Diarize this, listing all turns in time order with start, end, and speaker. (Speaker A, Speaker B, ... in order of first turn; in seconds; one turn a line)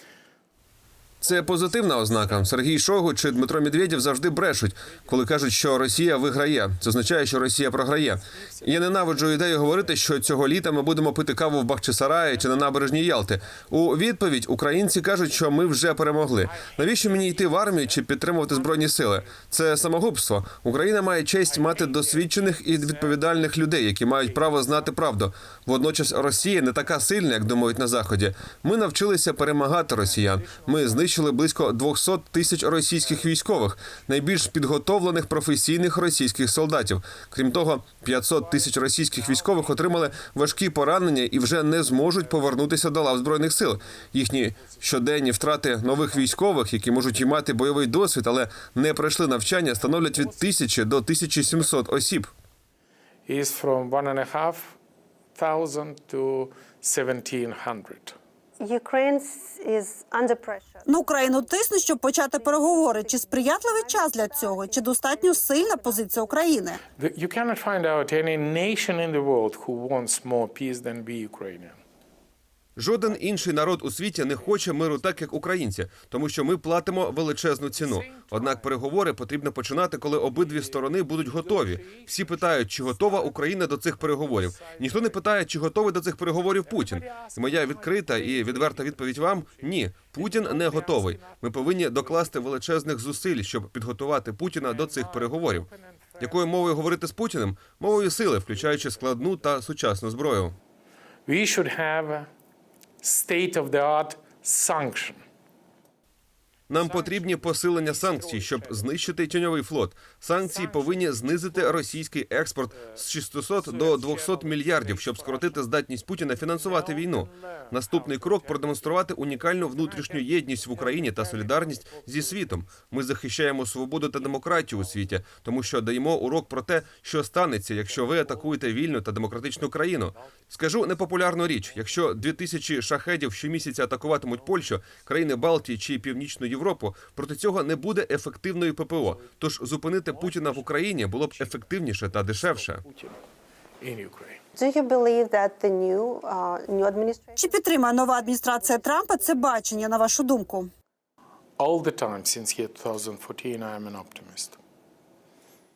Speaker A: 1.2-52.3
Speaker B: 1.3-2.5
Speaker B: 3.6-5.2
Speaker B: 8.2-10.6
Speaker B: 11.8-13.7
Speaker B: 16.4-19.5
Speaker B: 21.4-23.6
Speaker B: 24.1-25.2
Speaker B: 25.7-27.8
Speaker B: 29.9-31.2
Speaker B: 33.0-33.4
Speaker B: 38.3-41.3
Speaker B: 42.0-42.7
Speaker B: 43.9-45.3
Speaker B: 45.8-46.3
Speaker B: 49.7-50.5
Speaker B: 53.3-54.8
Speaker B: 55.4-58.2
Speaker C: 58.6-61.6
Speaker D: 60.9-66.8
Speaker C: 62.3-66.4
Speaker B: 67.0-71.8
Speaker A: 72.8-95.7
Speaker B: 73.0-75.6
Speaker B: 77.7-78.8
Speaker B: 80.0-85.4
Speaker B: 86.3-92.7
Speaker B: 94.6-97.0
Speaker A: 96.2-100.6
Speaker B: 97.9-99.6
Speaker B: 101.3-102.3
Speaker B: 103.0-105.2
Speaker A: 106.7-142.8
Speaker B: 106.8-109.3
Speaker B: 110.4-112.0
Speaker B: 112.7-113.0
Speaker B: 113.5-115.8
Speaker B: 116.3-122.7
Speaker B: 124.2-125.4
Speaker B: 127.8-128.8
Speaker B: 130.1-132.5
Speaker B: 134.2-134.8
Speaker B: 139.1-143.2
Speaker B: 143.8-144.4
Speaker C: 144.6-149.7
Speaker D: 147.4-150.7
Speaker B: 151.6-154.6